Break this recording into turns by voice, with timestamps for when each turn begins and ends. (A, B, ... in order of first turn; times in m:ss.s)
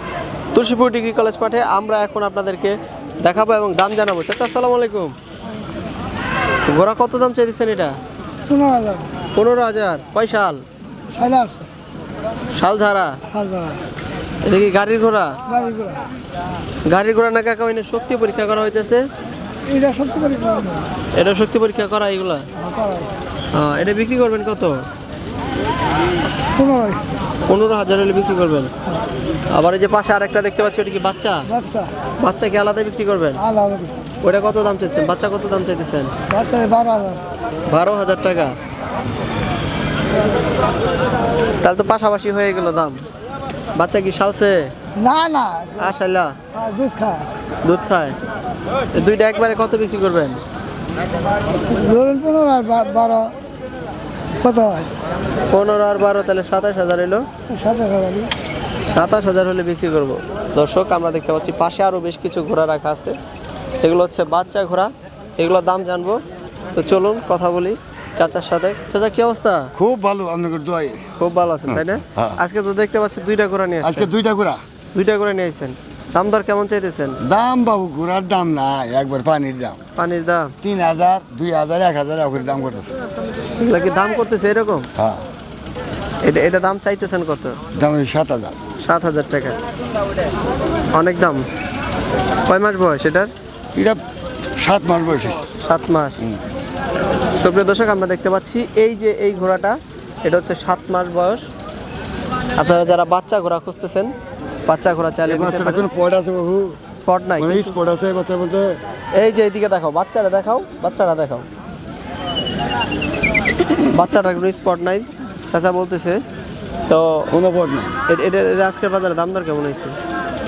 0:00.5-0:05.1 A
0:06.6-0:08.0 A
0:08.5-0:09.1 B
0:09.3-0:10.6 A
0:11.1-0:11.7 B
0:12.5-0:13.2 A
0:13.3-0:13.8 B
0:14.4-0:15.4 A
0:15.5-0:16.0 B
0:16.9-0:19.0 A
0:19.7-0:20.9 B
0:21.1-0:22.5 A
0:22.6-0:23.1 B
0:23.5-0:24.8 A
0:26.6-0:27.0 B
0:27.5-0:28.7 A
0:29.5-0:31.5 A
0:31.5-0:31.9 B
0:32.2-0:33.4 A
0:33.4-0:34.0 B
0:34.2-0:36.2 A
0:36.3-0:37.2 B
0:37.7-0:38.6 A
0:41.6-0:43.0 A
0:43.7-0:44.7 A
0:45.0-0:45.9 B
0:45.8-0:46.4 A
0:46.5-0:47.3 B
0:47.6-0:48.2 A
0:48.9-0:50.4 A
0:51.7-0:53.4 B
0:54.4-0:54.9 B
0:55.5-0:57.3 A
0:57.5-0:58.3 B
0:58.9-1:03.2 A
1:03.8-1:06.2 A
1:06.8-1:09.7 A
1:09.8-1:11.0 C
1:11.2-1:14.1 A
1:11.7-1:12.4 C
1:13.8-1:14.6 C
1:14.9-1:17.2 A
1:17.2-1:19.8 C
1:20.0-1:20.5 A
1:20.6-1:23.0 C
1:23.6-1:24.9 A
1:25.0-1:25.2 C
1:26.2-1:27.6 A
1:27.7-1:28.6 C
1:28.8-1:29.6 A
1:30.9-1:31.5 A
1:32.5-1:33.3 A
1:33.7-1:34.0 C
1:34.6-1:35.5 C
1:35.6-1:36.2 A
1:37.3-1:41.5 A
1:42.6-1:44.1 A
1:44.7-1:45.8 A
1:45.2-1:46.8 C
1:47.0-1:47.8 A
1:47.4-1:48.8 C
1:49.2-1:51.5 A
1:53.9-1:56.2 A
1:56.9-1:57.3 A
1:57.3-1:58.0 C
1:58.1-2:00.0 A